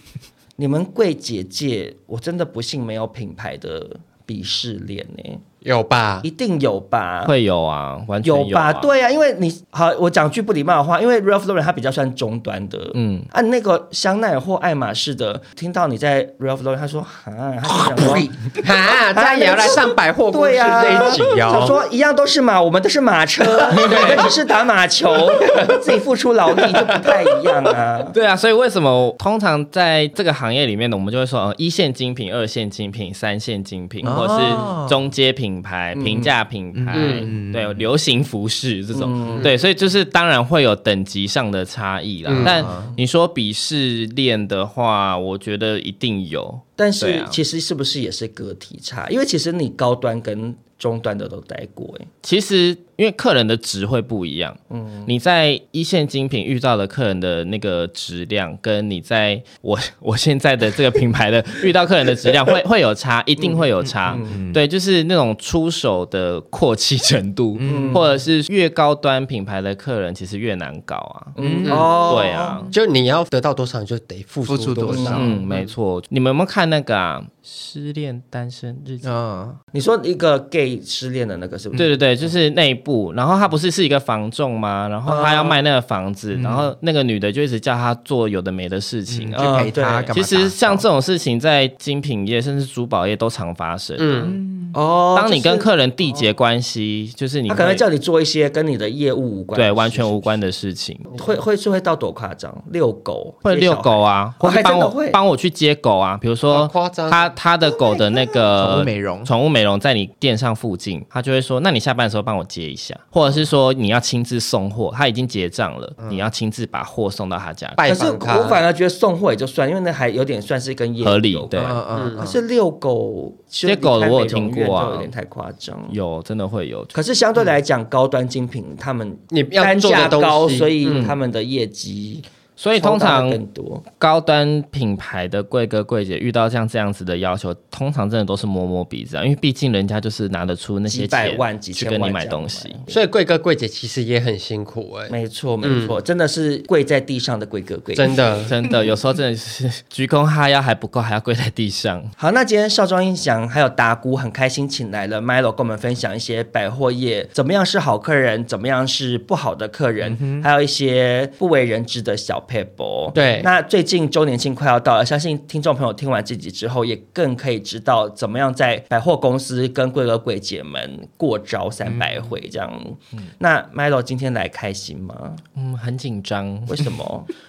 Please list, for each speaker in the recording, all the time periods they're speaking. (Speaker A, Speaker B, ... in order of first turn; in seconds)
Speaker A: 0.6-5.4, 6.2-7.3, 8.2-18.3, 19.1-28.1, 34.0-34.7, 35.9-36.3, 38.9-39.5, 46.8-52.1, 54.7-55.1, 64.1-64.4, 67.6-68.0, 71.3-72.6, 74.9-75.3, 79.7-81.9, 85.0-85.6, 89.4-90.1, 94.7-96.3, 97.5-100.3, 101.1-105.2, 117.8-121.5, 122.2-126.0, 126.9-132.2, 132.8-133.8, 140.9-143.0, 145.1-148.2, 152.2-175.4, 176.7-177.3
Speaker B: 5.6-6.2, 18.6-21.8, 23.6-24.3, 25.5-25.8, 36.9-37.3, 42.3-42.7, 71.7-71.9, 72.7-75.3, 94.0-94.4, 101.1-101.4, 106.5-107.3, 117.8-118.6, 121.9-122.3, 129.3-131.2, 142.9-146.0, 147.9-148.5, 163.1-163.5
Speaker C: 7.2-8.9, 12.9-13.3, 28.1-47.4, 52.2-71.3, 72.1-72.7, 75.1-79.1, 81.7-94.4, 95.1-97.8, 99.5-101.1, 103.4-117.8, 121.0-121.8, 123.7-125.1, 125.9-126.9, 132.6-133.4, 134.0-142.8, 148.5-152.1, 175.6-177.0
Speaker D: 17.7-18.3, 34.0-35.0, 36.7-37.8, 42.4-43.0, 63.8-64.6, 67.6-68.1, 71.4-72.7, 74.5-75.4, 79.0-79.6, 86.3-86.7, 89.1-90.8, 94.2-94.7, 108.0-109.3, 116.0-116.2, 121.5-122.3